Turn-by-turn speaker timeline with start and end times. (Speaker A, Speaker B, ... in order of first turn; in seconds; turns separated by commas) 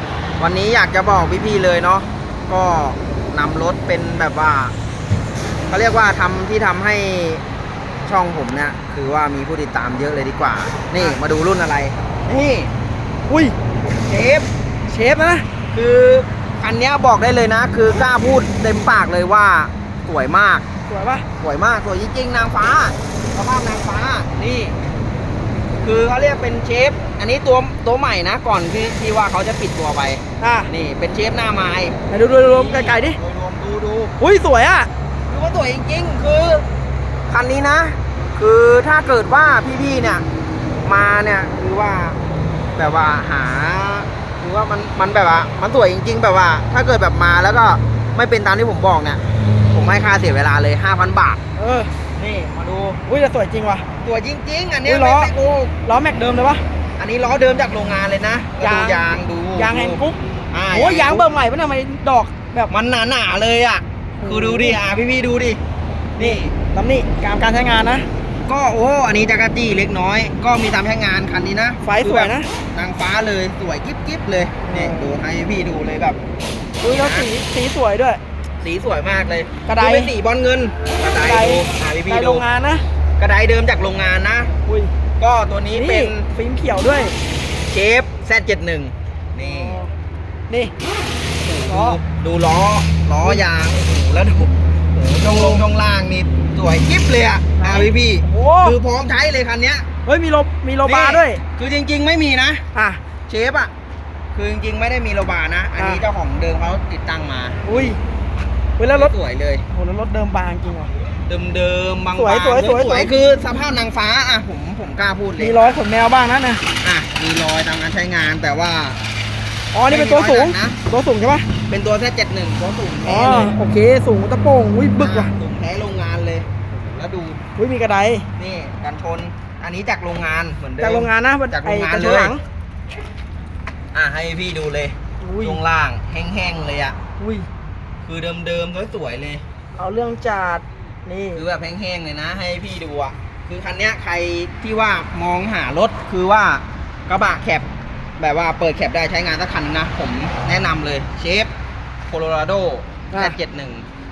Speaker A: 0.4-4.7, Speaker A: 5.7-7.4, Speaker A: 8.1-12.7, Speaker B: 13.3-13.6, Speaker A: 13.8-14.5, Speaker B: 14.9-15.4, Speaker A: 15.7-20.6, Speaker B: 20.9-21.2, Speaker A: 21.4-24.8, Speaker A: 25.8-34.1, Speaker B: 30.4-30.7, Speaker B: 32.1-33.2, Speaker B: 34.2-34.9, Speaker A: 35.3-36.6, Speaker A: 37.3-40.2, Speaker A: 40.8-42.2, Speaker A: 42.8-49.2, Speaker A: 49.7-51.4, Speaker B: 51.5-51.9, Speaker A: 52.2-53.0, Speaker B: 53.0-53.9, Speaker A: 54.0-55.7, Speaker B: 54.9-56.6, Speaker A: 57.0-60.0, Speaker B: 58.6-60.2, Speaker A: 60.5-61.3, Speaker B: 60.7-62.7, Speaker A: 62.7-65.6, Speaker B: 64.2-64.8, Speaker A: 66.2-66.5, Speaker B: 66.2-68.1, Speaker A: 68.5-76.2, Speaker B: 71.8-72.5, Speaker B: 74.6-75.1, Speaker B: 76.8-78.2, Speaker A: 76.9-77.3, Speaker A: 78.6-82.4, Speaker B: 79.6-80.1, Speaker B: 81.2-82.8, Speaker A: 83.2-84.5, Speaker B: 84.7-84.9, Speaker A: 85.2-86.3, Speaker B: 85.8-87.1, Speaker A: 87.7-89.8, Speaker B: 89.4-89.9, Speaker A: 91.4-99.8, Speaker B: 91.7-92.0, Speaker B: 95.2-95.6, Speaker B: 97.6-98.8, Speaker B: 100.1-101.4, Speaker A: 100.8-102.6, Speaker B: 102.8-103.0, Speaker A: 103.3-103.7, Speaker A: 104.3-107.6, Speaker B: 105.8-106.0, Speaker B: 107.6-108.0, Speaker B: 108.8-109.1, Speaker A: 108.9-109.6, Speaker B: 109.7-110.9, Speaker A: 111.3-115.8, Speaker B: 112.1-113.1, Speaker B: 115.4-116.6, Speaker A: 116.8-119.0, Speaker B: 119.7-121.5, Speaker A: 119.9-120.8, Speaker A: 121.7-123.5, Speaker B: 123.1-125.3, Speaker A: 125.0-127.4, Speaker B: 127.6-128.2, Speaker A: 128.3-132.3, Speaker B: 130.8-132.4, Speaker A: 133.9-136.9, Speaker B: 135.2-135.6, Speaker B: 137.2-137.5, Speaker A: 138.0-139.4, Speaker B: 139.8-141.4, Speaker A: 141.3-147.7, Speaker A: 148.2-151.5, Speaker A: 152.1-153.8